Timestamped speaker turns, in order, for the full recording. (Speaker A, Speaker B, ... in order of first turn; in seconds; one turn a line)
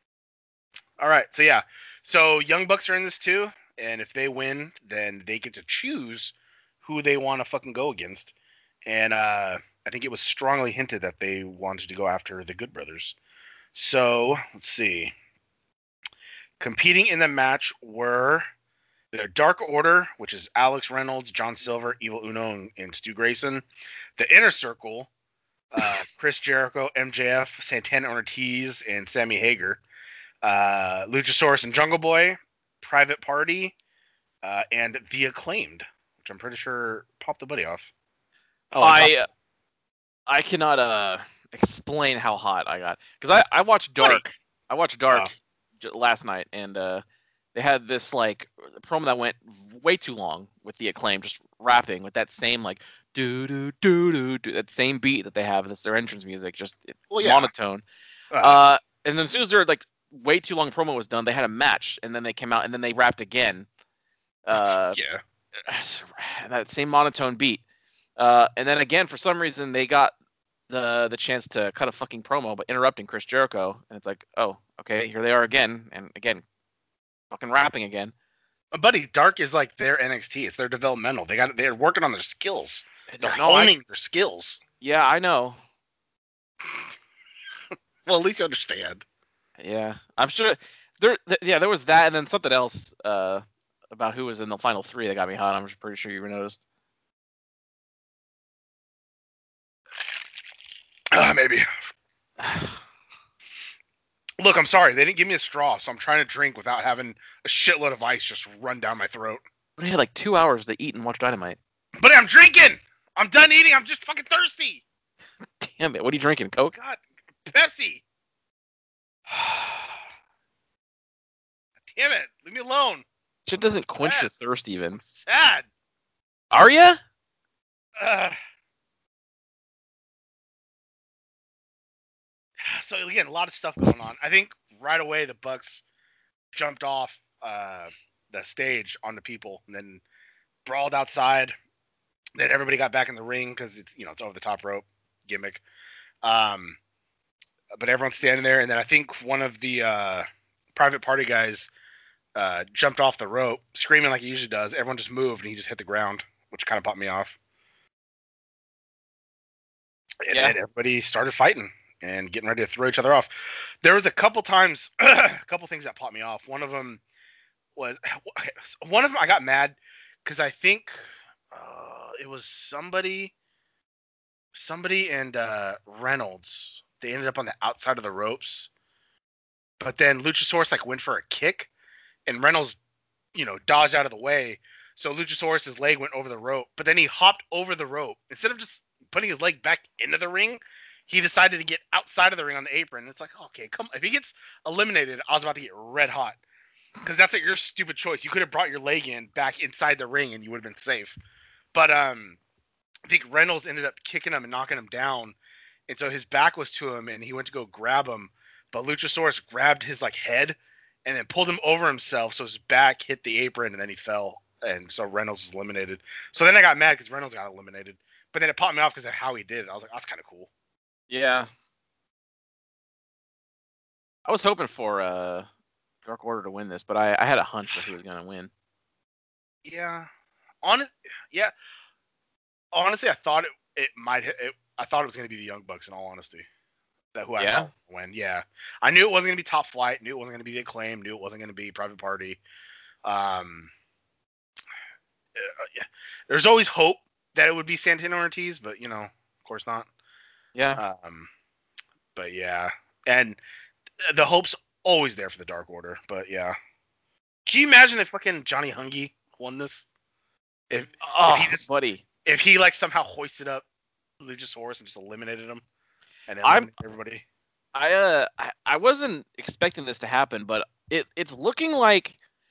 Speaker A: 1.0-8.3
Speaker A: 8.8-13.2
Speaker A: 13.7-15.1
Speaker A: 16.6-18.5
Speaker A: 19.1-23.6
Speaker A: 24.2-25.1
Speaker A: 25.7-29.8
Speaker A: 30.4-33.7
Speaker A: 34.4-37.9
Speaker A: 38.7-39.1
Speaker B: 38.8-39.3
Speaker B: 40.3-57.8
Speaker A: 57.1-57.5
Speaker A: 58.3-58.6
Speaker B: 58.4-63.7
Speaker B: 64.4-65.0
Speaker A: 64.5-65.2
Speaker B: 65.6-67.6
Speaker B: 68.2-70.1
Speaker B: 70.7-76.4
Speaker B: 77.3-78.1
Speaker A: 78.7-84.6
Speaker B: 83.1-83.7
Speaker B: 84.8-85.6
Speaker A: 88.0-89.0
Speaker B: 89.6-96.6
Speaker A: 101.1-101.7
Speaker B: 102.4-102.8
Speaker A: 104.4-109.4
Speaker B: 109.8-111.6
Speaker A: 112.0-114.8
Speaker B: 115.6-116.7
Speaker A: 116.7-118.0
Speaker A: 119.3-119.8
Speaker A: 121.8-123.0
Speaker B: 123.5-125.0
Speaker A: 123.9-124.3
Speaker A: 124.9-125.7
Speaker B: 126.5-127.0
Speaker A: 128.0-128.4
Speaker A: 132.6-135.8
Speaker A: 136.5-140.0
Speaker A: 140.7-141.5
Speaker A: 142.3-145.6
Speaker A: 146.2-146.8
Speaker A: 147.8-151.7
Speaker A: 152.3-157.3
Speaker A: 160.2-167.0
Speaker A: 167.8-171.0
Speaker A: 171.5-173.3
Speaker A: 174.5-178.7
Speaker A: 179.8-181.7
Speaker A: 182.3-182.8
Speaker A: 183.3-196.4
Speaker A: 197.0-201.2
Speaker A: 201.7-202.4
Speaker A: 203.1-205.3
Speaker A: 205.9-220.5
Speaker B: 221.1-221.5
Speaker B: 224.2-225.4
Speaker B: 226.0-228.5
Speaker A: 229.6-230.1
Speaker A: 230.6-231.5
Speaker A: 232.7-236.4
Speaker A: 237.1-242.4
Speaker B: 237.4-237.7
Speaker A: 243.0-243.7
Speaker A: 245.3-249.9
Speaker B: 250.5-250.8
Speaker A: 250.8-251.3
Speaker A: 252.1-253.4
Speaker A: 254.0-256.6
Speaker A: 257.5-259.9
Speaker A: 260.7-261.6
Speaker B: 261.0-262.0
Speaker A: 262.2-263.6
Speaker A: 264.2-265.6
Speaker A: 266.3-267.2
Speaker B: 266.4-266.7
Speaker B: 267.8-272.1